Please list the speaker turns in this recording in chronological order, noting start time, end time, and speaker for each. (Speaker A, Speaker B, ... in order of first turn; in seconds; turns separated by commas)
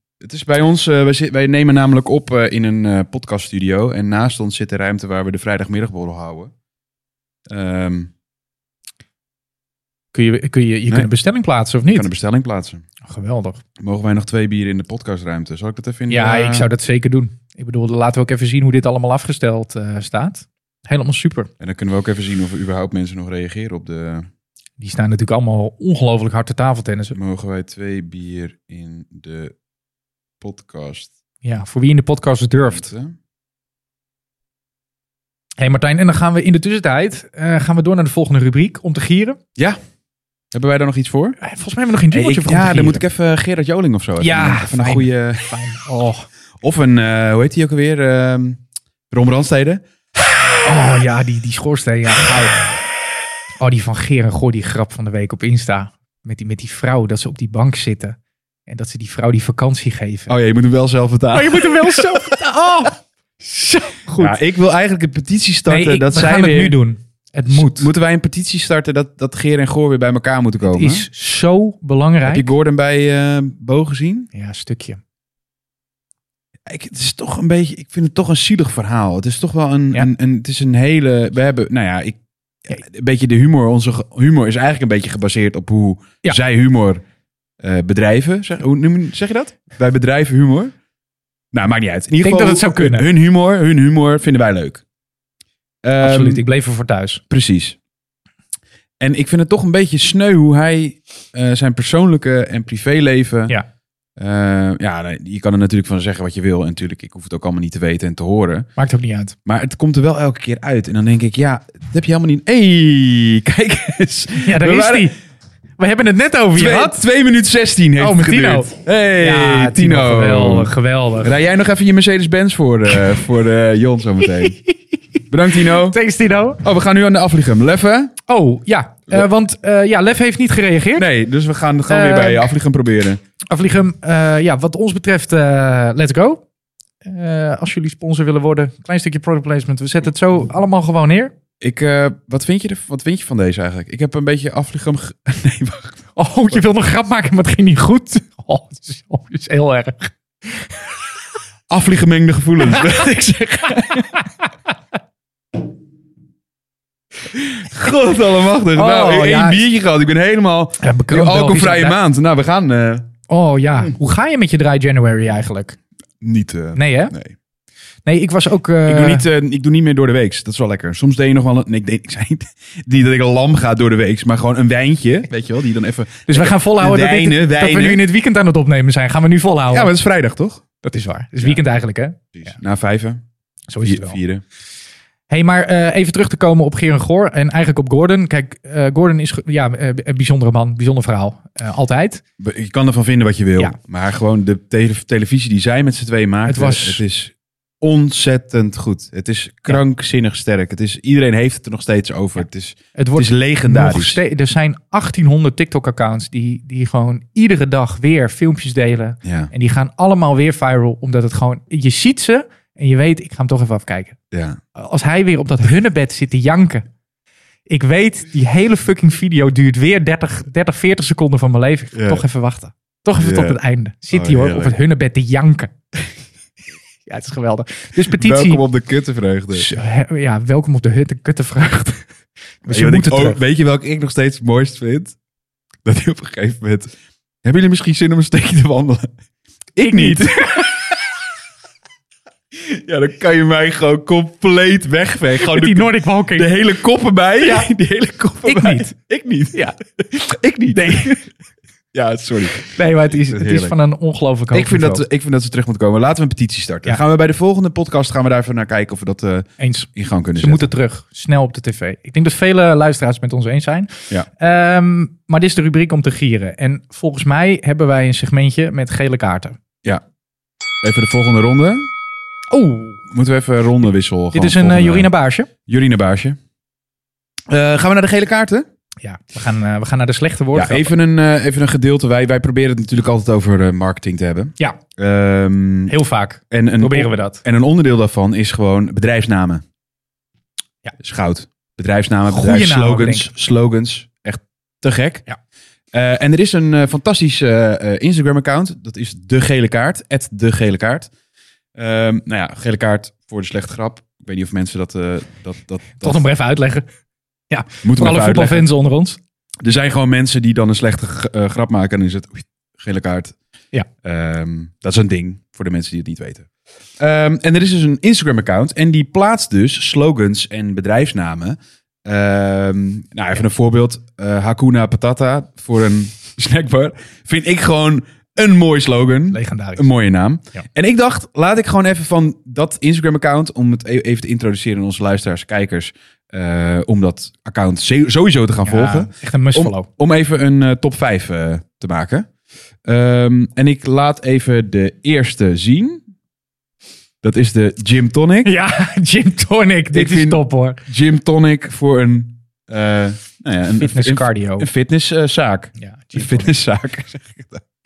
Speaker A: 0.2-6.5, Speaker A: 7.5-8.1, Speaker B: 10.1-12.1, Speaker A: 11.9-12.8, Speaker B: 13.0-13.6, Speaker A: 13.8-16.7, Speaker B: 16.1-21.5, Speaker A: 21.6-24.3, Speaker B: 24.8-27.2, Speaker A: 27.1-29.6, Speaker A: 30.4-31.1, Speaker B: 31.4-32.9, Speaker A: 32.7-33.2, Speaker B: 35.6-39.4, Speaker A: 40.5-41.4, Speaker B: 41.4-43.0, Speaker A: 42.1-45.5, Speaker B: 44.2-46.3, Speaker A: 46.6-49.8, Speaker B: 50.6-52.7, Speaker B: 53.6-60.3, Speaker A: 60.3-62.3, Speaker B: 61.3-64.4, Speaker A: 64.2-66.8, Speaker B: 65.7-67.9, Speaker A: 67.5-71.1, Speaker B: 70.6-72.5, Speaker A: 72.2-74.3, Speaker B: 74.3-75.0, Speaker A: 76.7-87.0, Speaker A: 87.6-90.7, Speaker A: 91.5-94.8, Speaker B: 92.2-93.1, Speaker A: 95.8-96.4, Speaker B: 96.0-97.2, Speaker A: 97.3-97.8, Speaker A: 99.0-103.5, Speaker A: 104.2-108.7, Speaker B: 108.8-109.3, Speaker A: 109.5-115.1, Speaker B: 114.4-115.2, Speaker B: 115.8-117.0, Speaker A: 116.5-124.6, Speaker B: 118.0-121.3, Speaker B: 124.4-124.8, Speaker A: 125.3-126.0, Speaker B: 125.6-126.6, Speaker A: 126.6-128.1, Speaker B: 128.3-131.1, Speaker A: 130.9-133.2, Speaker B: 131.9-132.5, Speaker B: 133.5-136.4, Speaker B: 137.0-141.3, Speaker A: 141.6-146.6, Speaker B: 146.2-150.7, Speaker A: 151.7-154.2, Speaker B: 153.9-154.3, Speaker A: 157.3-163.1, Speaker B: 158.7-159.6, Speaker B: 160.8-162.0, Speaker B: 163.3-165.8, Speaker A: 166.2-167.3, Speaker B: 166.7-167.1, Speaker B: 168.1-169.2, Speaker A: 168.8-178.0, Speaker B: 176.3-179.9, Speaker A: 179.7-180.6, Speaker B: 180.8-182.6, Speaker A: 182.3-183.2, Speaker B: 183.7-184.2, Speaker A: 183.8-184.4, Speaker B: 185.3-192.2, Speaker A: 192.4-204.2, Speaker B: 196.5-197.0, Speaker B: 202.9-214.2, Speaker A: 209.2-209.5, Speaker A: 214.3-214.6, Speaker B: 214.7-216.8, Speaker B: 217.7-225.8, Speaker A: 221.9-222.2, Speaker A: 223.2-223.6, Speaker A: 224.1-224.8, Speaker B: 227.1-228.6, Speaker A: 228.0-229.7, Speaker B: 229.5-232.1, Speaker B: 232.6-233.4, Speaker A: 232.7-235.2, Speaker A: 235.8-236.9, Speaker A: 237.4-239.1, Speaker A: 239.8-240.9, Speaker B: 239.8-240.8, Speaker A: 242.5-251.3, Speaker B: 245.4-246.5, Speaker B: 247.4-247.7, Speaker B: 248.4-248.9, Speaker B: 250.8-251.2, Speaker A: 251.9-253.7, Speaker B: 252.6-255.0, Speaker A: 254.5-260.7, Speaker B: 259.6-269.6, Speaker A: 270.8-271.9, Speaker B: 272.5-273.0, Speaker A: 273.1-275.1, Speaker B: 274.3-275.5, Speaker A: 275.6-276.4, Speaker A: 277.5-278.6, Speaker B: 279.0-280.9, Speaker A: 280.5-285.9, Speaker B: 285.9-287.4, Speaker A: 286.5-289.6, Speaker A: 290.9-295.2, Speaker B: 292.3-293.3, Speaker A: 295.9-301.1, Speaker A: 301.8-306.2, Speaker B: 306.0-306.9, Speaker B: 307.5-309.2, Speaker A: 307.8-308.7, Speaker A: 309.6-313.3, Speaker A: 314.0-316.5, Speaker A: 317.0-342.3, Speaker B: 329.3-329.9, Speaker B: 338.6-339.9, Speaker A: 342.8-346.0, Speaker A: 347.2-348.5, Speaker B: 348.4-350.8, Speaker A: 349.9-357.6, Speaker B: 353.8-354.7, Speaker B: 355.8-356.5